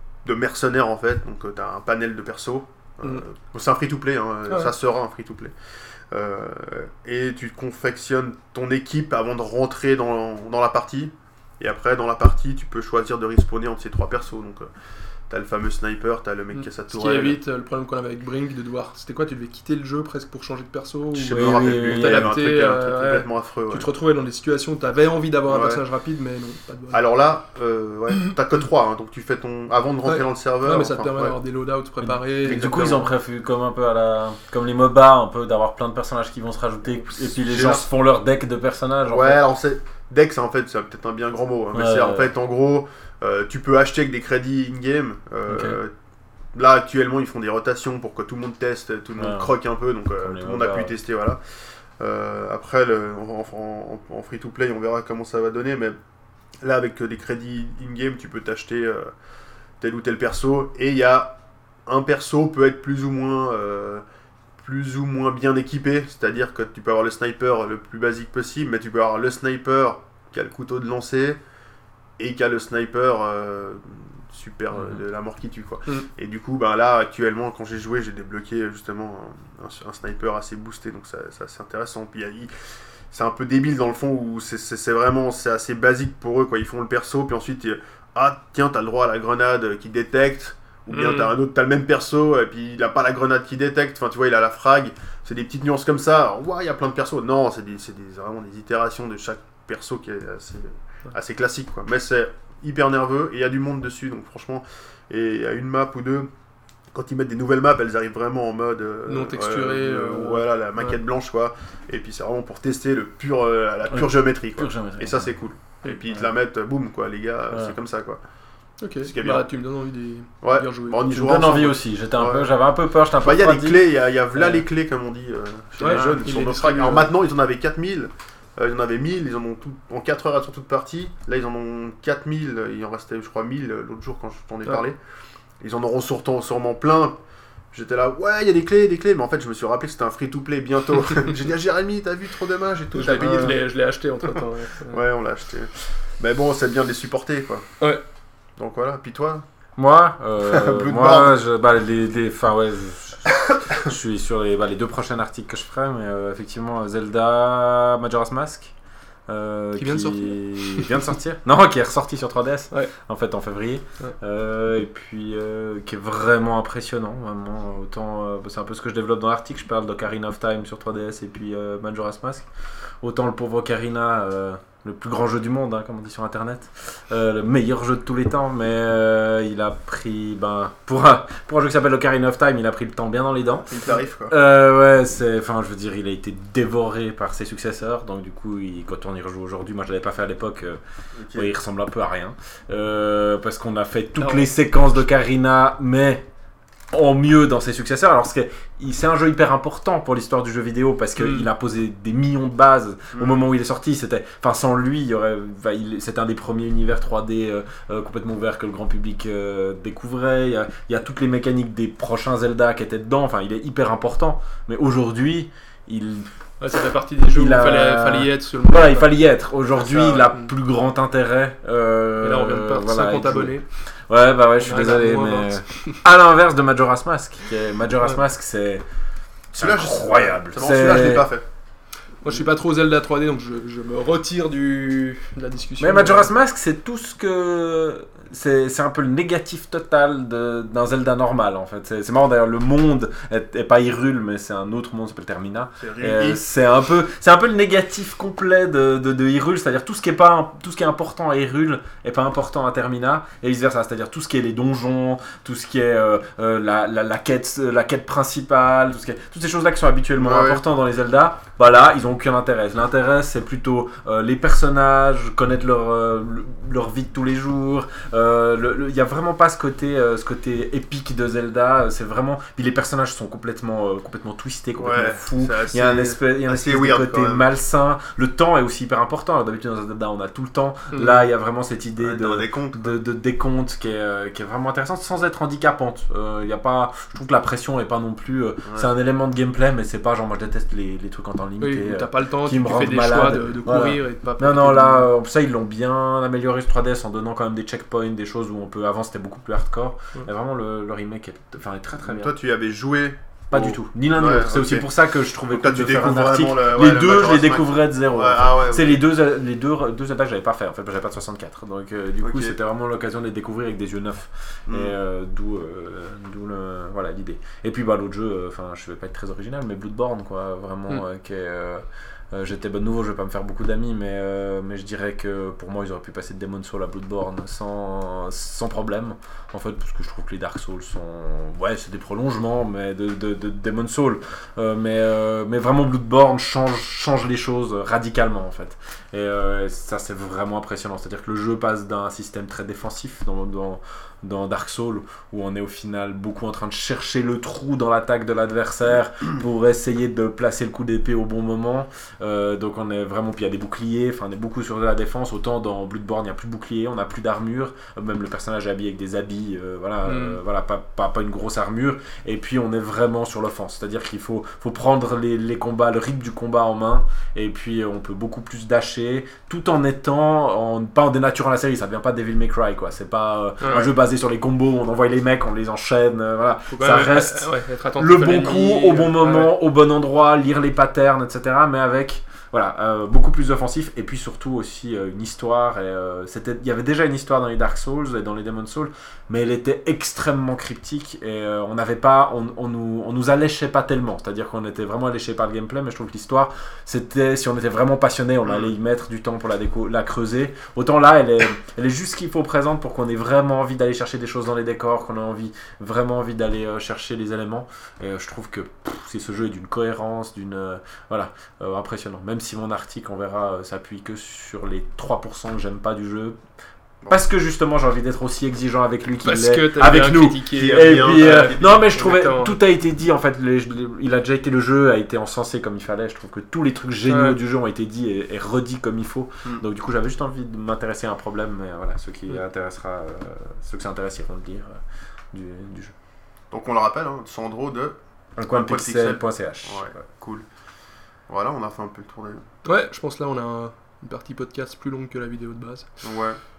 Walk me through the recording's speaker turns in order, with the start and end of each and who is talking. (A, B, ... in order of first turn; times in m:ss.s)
0:00.2-0:05.5 A
0:04.5-0:04.7 B
0:06.1-0:14.7 A
0:15.3-0:17.4 A
0:16.5-0:27.0 B
0:21.1-0:23.9 A
0:21.3-0:22.3 C
0:25.5-0:25.8 A
0:26.9-0:31.4 A
0:30.0-0:32.7 B
0:32.0-0:39.4 C
0:32.4-0:33.0 A
0:36.9-0:37.9 A
0:39.0-0:45.9 A
0:41.7-0:42.3 C
0:45.5-0:45.8 C
0:46.5-0:51.4 A
0:49.2-0:49.5 C
0:50.2-0:50.9 C
0:52.0-0:56.0 A
0:56.6-0:59.1 A
0:59.8-1:04.0 A
1:04.6-1:11.4 A
1:12.2-1:22.5 A
1:14.7-1:15.0 C
1:23.1-1:46.3 A
1:30.9-1:31.3 B
1:46.9-1:58.2 A
1:49.0-1:51.0 B
1:53.9-1:55.3 C
1:58.8-2:01.4 B
1:59.0-1:59.5 A
2:00.4-2:02.5 A
2:01.1-2:04.6 C
2:03.2-2:15.0 A
2:05.8-2:07.1 B
2:15.6-2:17.2 A
2:17.7-2:23.6 A
2:22.9-2:25.0 B
2:24.9-2:27.6 A
2:28.6-2:29.4 A
2:29.8-2:38.7 C
2:30.4-2:31.3 A
2:39.3-2:52.5 C
2:39.8-2:41.1 B
2:53.0-3:10.8 C
3:03.6-3:04.4 A
3:11.1-3:11.5 A
3:11.3-3:16.2 C
3:14.2-3:14.5 B
3:16.9-3:36.3 C
3:21.2-3:21.5 B
3:23.1-3:23.4 A
3:36.6-3:40.5 B
3:37.3-3:48.8 C
3:42.2-3:43.6 B
3:44.6-3:46.0 B
3:49.5-3:51.3 C
3:49.6-3:51.4 A
3:52.2-3:56.3 B
3:55.8-5:02.3 C
4:05.8-4:06.4 A
4:20.1-4:20.6 A
4:34.8-4:37.5 A
4:40.9-4:41.3 B
4:42.0-4:43.0 A
4:48.6-4:48.9 A
4:51.6-4:55.1 B
5:02.0-5:09.0 A
5:03.5-6:56.4 C
5:12.2-5:12.6 A
5:14.7-5:15.0 A
6:00.0-6:00.4 B
6:13.6-6:13.9 B
6:16.7-6:19.5 B
6:38.4-6:38.7 A
6:57.1-7:14.8 C
6:59.2-7:02.6 B
7:00.6-7:01.8 A
7:07.1-7:07.4 B
7:15.3-7:15.9 C
7:16.5-7:18.0 A
7:18.4-7:19.9 C
7:18.5-7:20.4 A
7:21.3-7:22.4 A
7:22.6-7:26.0 B
7:26.0-7:26.4 A